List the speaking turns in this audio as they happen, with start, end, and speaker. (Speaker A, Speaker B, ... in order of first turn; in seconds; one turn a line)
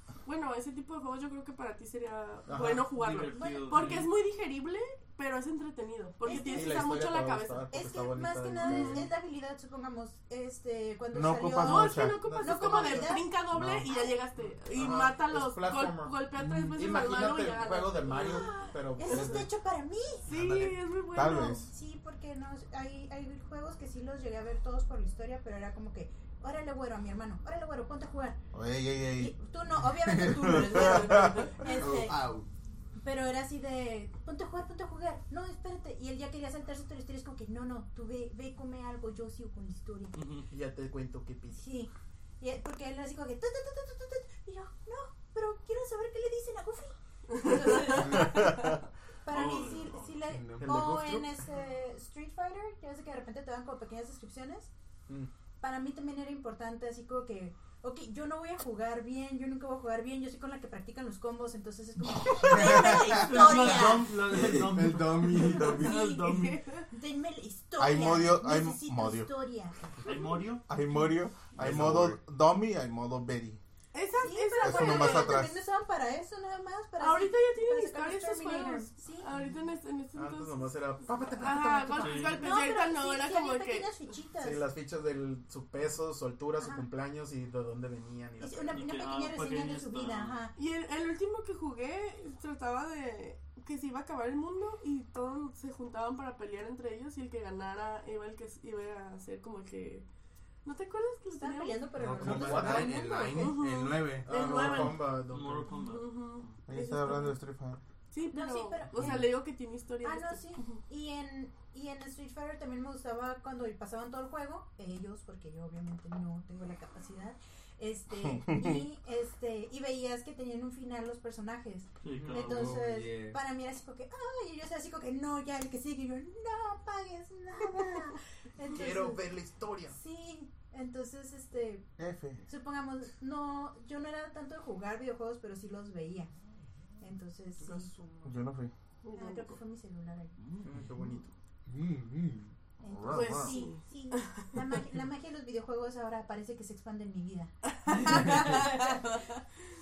Speaker A: 0.2-7.7
Speaker B: 2.5-2.9
Speaker C: 3.0-4.1
Speaker D: 3.3-4.1
Speaker D: 6.2-7.0
Speaker B: 6.5-9.2
Speaker D: 7.7-14.2
Speaker A: 8.6-8.9
Speaker E: 11.1-13.9
Speaker A: 11.6-18.6
Speaker B: 14.7-16.2
Speaker B: 16.8-19.5
Speaker D: 18.1-20.3
Speaker A: 20.2-21.6
Speaker B: 20.3-20.8
Speaker E: 21.1-21.7
Speaker D: 21.5-28.4
Speaker E: 28.5-29.4
Speaker D: 29.1-32.4
Speaker F: 30.2-30.4
Speaker E: 30.5-31.4
Speaker F: 31.6-32.5
Speaker D: 33.0-40.2
Speaker C: 40.1-40.5
Speaker B: 40.5-41.7
Speaker D: 41.5-48.7
Speaker A: 47.4-48.1
Speaker D: 49.2-54.7
Speaker C: 49.3-50.2
Speaker F: 50.3-50.8
Speaker B: 50.6-51.3
Speaker D: 55.6-64.2
Speaker F: 62.5-65.8
Speaker C: 62.7-66.6
Speaker E: 65.4-65.9
Speaker D: 65.7-69.9
Speaker A: 65.7-66.9
Speaker E: 67.8-69.3
Speaker C: 70.0-70.7
Speaker E: 70.7-73.6
Speaker F: 71.6-72.2
Speaker A: 73.9-75.4
Speaker D: 74.1-79.3
Speaker E: 74.6-75.6
Speaker A: 77.0-80.7
Speaker B: 80.2-82.3
Speaker A: 81.4-83.9
Speaker D: 81.5-84.7
Speaker C: 82.0-82.6
Speaker B: 84.4-88.9
Speaker D: 86.6-86.9
Speaker D: 88.4-90.5
Speaker C: 88.7-90.4
Speaker A: 90.6-100.1
Speaker A: 100.7-101.9
Speaker D: 101.3-103.6
Speaker F: 102.0-104.6
Speaker B: 102.1-103.1
Speaker A: 103.3-105.1
Speaker B: 104.3-105.7
Speaker C: 105.1-106.6
Speaker A: 105.7-107.4
Speaker E: 106.7-107.8
Speaker A: 108.1-110.7
Speaker D: 108.3-109.3
Speaker D: 110.0-129.3
Speaker E: 118.2-118.8
Speaker C: 122.0-122.8
Speaker F: 122.2-123.4
Speaker B: 128.7-130.0
Speaker D: 129.9-131.9
Speaker E: 132.0-132.5
Speaker D: 132.5-136.3
Speaker D: 137.0-137.9
Speaker B: 137.6-138.4
Speaker E: 138.2-138.7
Speaker A: 139.0-139.6
Speaker D: 139.1-140.4
Speaker C: 140.4-140.8
Speaker B: 140.6-141.3
Speaker F: 141.7-142.5
Speaker D: 142.8-149.1
Speaker E: 142.9-143.6
Speaker A: 143.1-144.7
Speaker A: 147.7-149.4